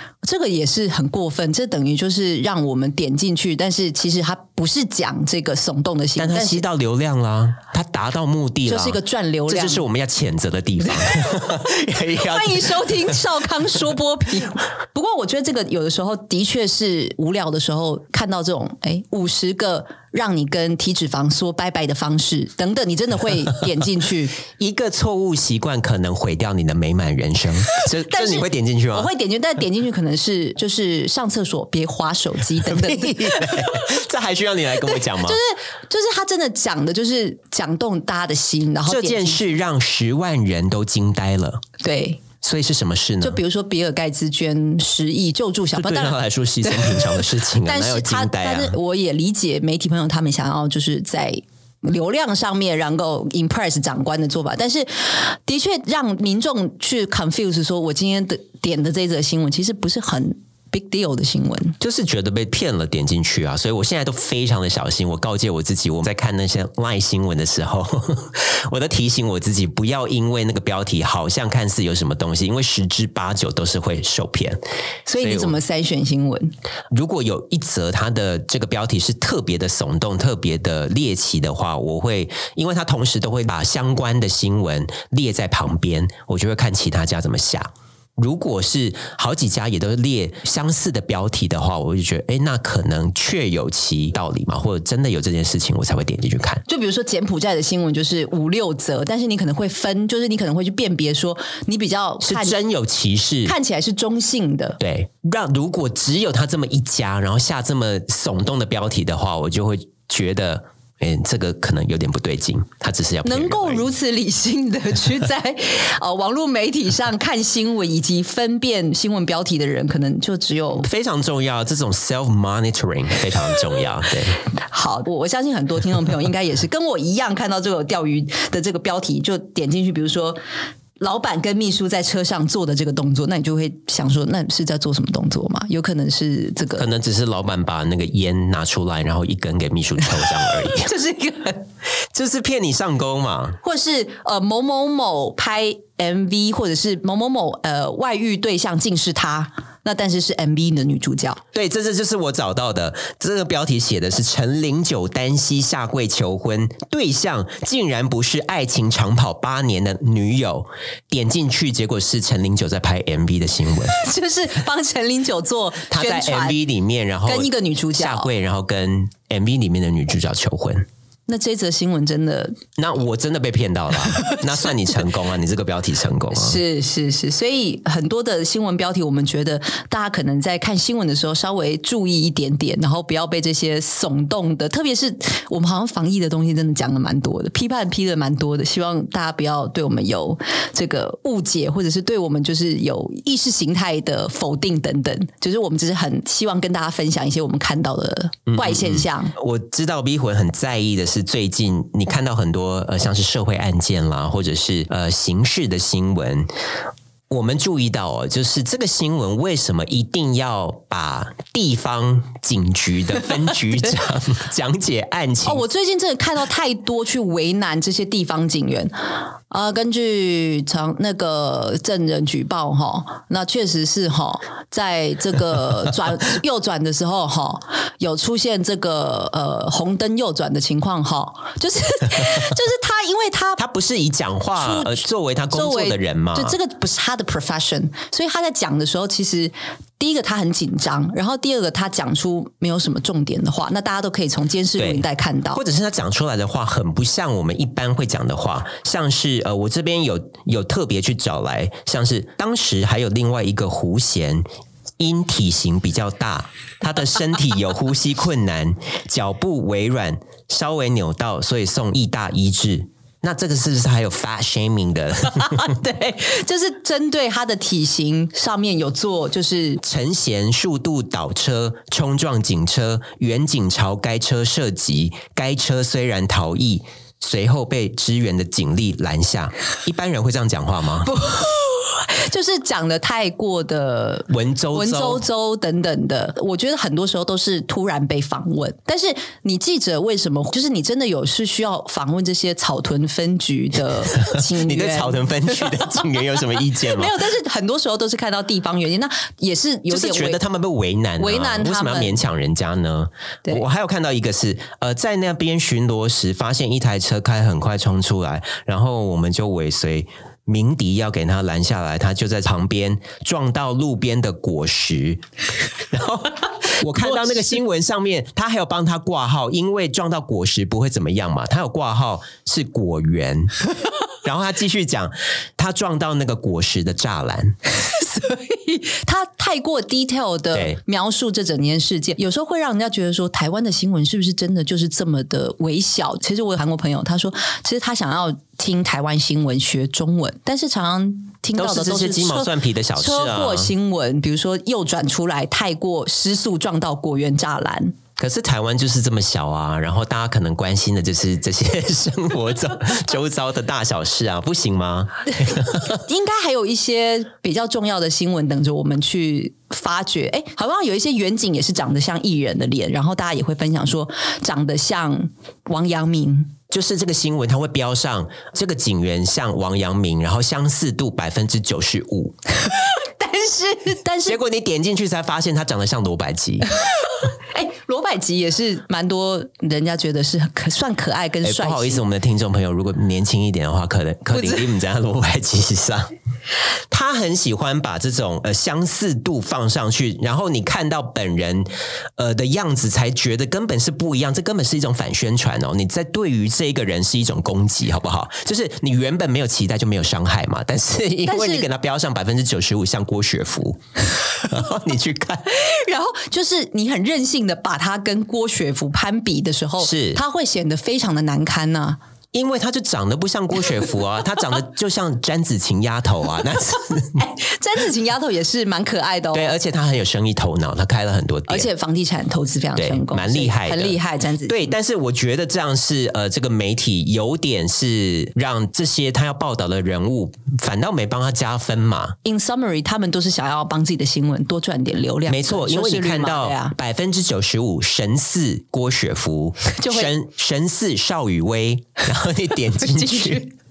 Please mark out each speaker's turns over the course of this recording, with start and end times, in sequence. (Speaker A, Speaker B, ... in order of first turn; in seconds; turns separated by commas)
Speaker A: 0.2-6.7, Speaker B: 6.2-13.2, Speaker A: 8.7-9.8, Speaker A: 11.0-11.4, Speaker A: 12.2-24.4, Speaker B: 24.5-29.1, Speaker A: 28.1-33.9, Speaker B: 32.6-35.4, Speaker A: 34.8-39.5, Speaker B: 38.9-41.6, Speaker A: 41.8-42.2, Speaker B: 42.4-43.4, Speaker A: 43.2-61.8, Speaker B: 45.8-48.8, Speaker B: 61.8-74.6, Speaker A: 75.1-76.5, Speaker B: 75.2-75.6, Speaker B: 76.9-96.6, Speaker A: 96.7-102.6, Speaker B: 102.2-103.5, Speaker A: 103.5-104.8, Speaker B: 104.8-113.9, Speaker A: 113.2-120.9, Speaker B: 120.8-124.4, Speaker A: 124.7-130.4, Speaker A: 131.0-136.9, Speaker B: 136.8-140.9, Speaker A: 140.4-141.6, Speaker B: 142.1-143.6, Speaker A: 143.6-151.4, Speaker B: 151.5-164.0, Speaker A: 163.9-166.6, Speaker B: 165.9-170.9, Speaker A: 167.3-168.3, Speaker A: 171.3-172.6, Speaker B: 172.8-176.6, Speaker A: 176.3-199.3, Speaker B: 198.5-206.5, Speaker B: 207.3-215.6, Speaker A: 215.4-218.9, Speaker A: 219.5-233.6, Speaker B: 233.6-236.6, Speaker A: 234.6-245.6, Speaker B: 244.8-254.4, Speaker B: 255.0-265.7, Speaker A: 265.3-269.8, Speaker B: 269.8-281.1, Speaker A: 281.1-296.1, Speaker B: 284.3-285.2, Speaker B: 294.1-297.1, Speaker A: 296.8-300.4, Speaker B: 299.9-315.2, Speaker A: 301.2-302.2, Speaker B: 315.8-323.7, Speaker B: 324.2-327.6, Speaker A: 327.9-348.0, Speaker B: 341.6-343.7, Speaker B: 348.2-355.9, Speaker A: 355.5-366.5, Speaker B: 366.7-372.4, Speaker A: 372.7-374.4, Speaker B: 374.2-376.7, Speaker A: 377.5-382.1, Speaker B: 381.4-386.1, Speaker A: 384.3-384.6, Speaker B: 386.9-405.5, Speaker A: 401.3-401.7, Speaker A: 405.6-412.0, Speaker B: 409.8-410.2, Speaker B: 412.3-417.2, Speaker A: 417.2-419.5, Speaker B: 419.3-421.7, Speaker A: 421.5-424.7, Speaker B: 422.8-432.2, Speaker A: 432.2-436.8, Speaker B: 435.3-443.4, Speaker A: 439.8-440.1, Speaker A: 443.0-443.4